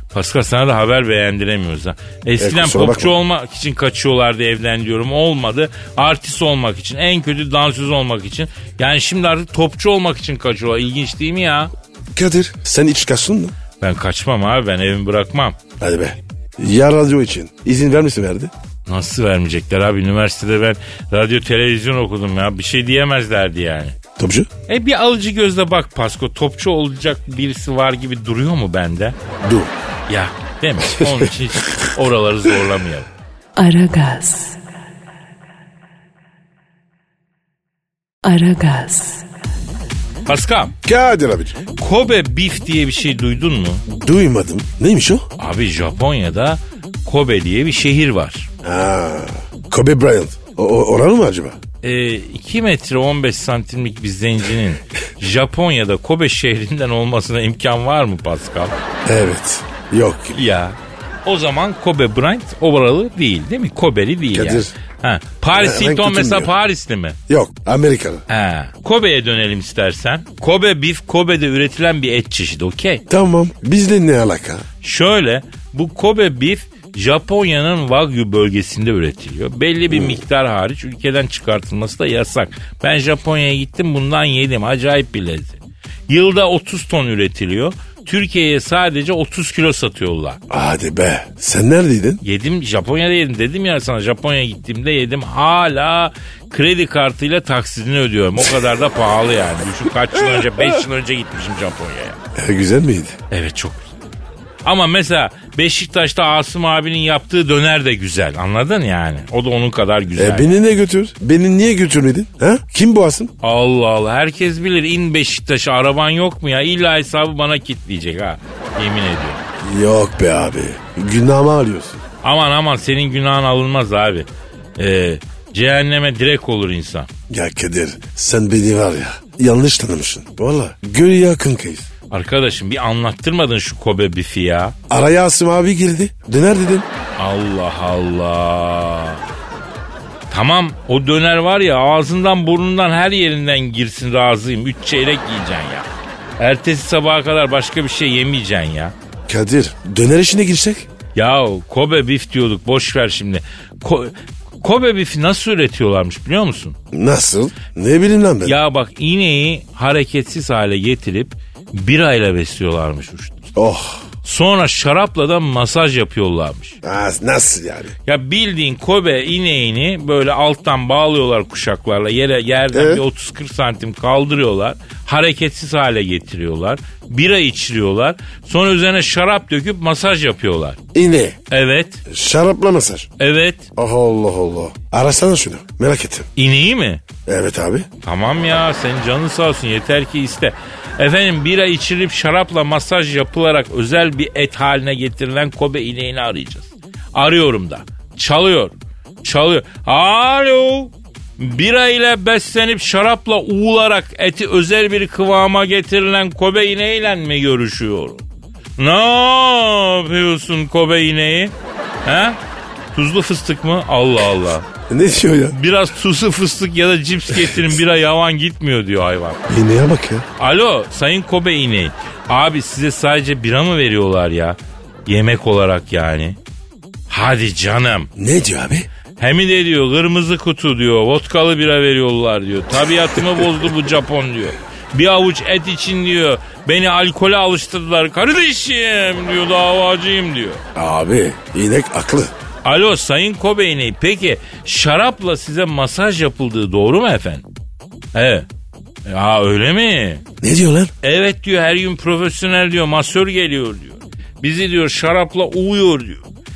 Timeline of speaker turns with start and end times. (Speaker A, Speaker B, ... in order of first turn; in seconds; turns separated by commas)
Speaker A: 0.1-11.7, Speaker B: 2.4-3.1, Speaker B: 12.1-13.5, Speaker A: 13.8-15.6, Speaker B: 15.8-18.5, Speaker A: 18.9-23.9, Speaker B: 24.2-24.5, Speaker A: 24.7-29.2, Speaker B: 29.4-29.7, Speaker A: 30.1-33.1, Speaker B: 31.0-31.3, Speaker C: 33.5-34.6, Speaker C: 38.2-39.3, Speaker A: 40.3-40.7, Speaker B: 40.8-41.6, Speaker A: 41.8-43.8, Speaker B: 43.9-45.3, Speaker A: 45.4-48.5, Speaker B: 48.6-51.6, Speaker A: 51.8-58.7, Speaker B: 59.0-60.4, Speaker A: 60.3-67.2, Speaker B: 64.3-64.7, Speaker B: 65.5-66.5, Speaker B: 67.3-68.2, Speaker A: 68.3-73.0, Speaker B: 73.1-74.7, Speaker A: 74.8-90.4, Speaker B: 79.9-80.2, Speaker B: 90.5-92.2, Speaker A: 92.2-102.2, Speaker B: 102.3-103.2, Speaker A: 103.3-103.9, Speaker A: 104.6-110.5, Speaker B: 110.2-113.3, Speaker A: 113.4-119.4, Speaker B: 119.6-122.0, Speaker A: 122.2-127.1, Speaker B: 127.3-131.9, Speaker A: 132.1-134.7, Speaker B: 134.9-136.9, Speaker A: 137.2-139.2, Speaker A: 140.3-145.9, Speaker A: 146.4-148.9, Speaker B: 149.3-150.9, Speaker A: 151.1-156.8, Speaker B: 156.9-158.6, Speaker A: 158.4-163.5, Speaker B: 163.6-164.0, Speaker A: 164.2-166.8, Speaker B: 166.8-167.9, Speaker A: 168.1-180.8, Speaker B: 172.7-173.0, Speaker B: 180.9-181.4, Speaker A: 181.5-182.0, Speaker B: 182.1-183.1, Speaker A: 183.2-183.7, Speaker B: 183.8-186.3, Speaker A: 186.4-187.0, Speaker B: 187.2-187.9, Speaker A: 188.0-208.2, Speaker A: 208.8-211.5, Speaker A: 212.0-212.4, Speaker A: 212.9-214.7, Speaker B: 214.9-215.6, Speaker A: 215.5-219.4, Speaker B: 217.3-217.8, Speaker B: 219.5-220.2, Speaker A: 220.4-226.4, Speaker A: 227.1-228.1, Speaker B: 228.2-228.9, Speaker A: 229.2-240.6, Speaker B: 240.7-242.3, Speaker A: 242.6-247.4, Speaker A: 248.1-248.5, Speaker A: 249.1-250.2, Speaker B: 250.4-250.9, Speaker A: 251.0-256.2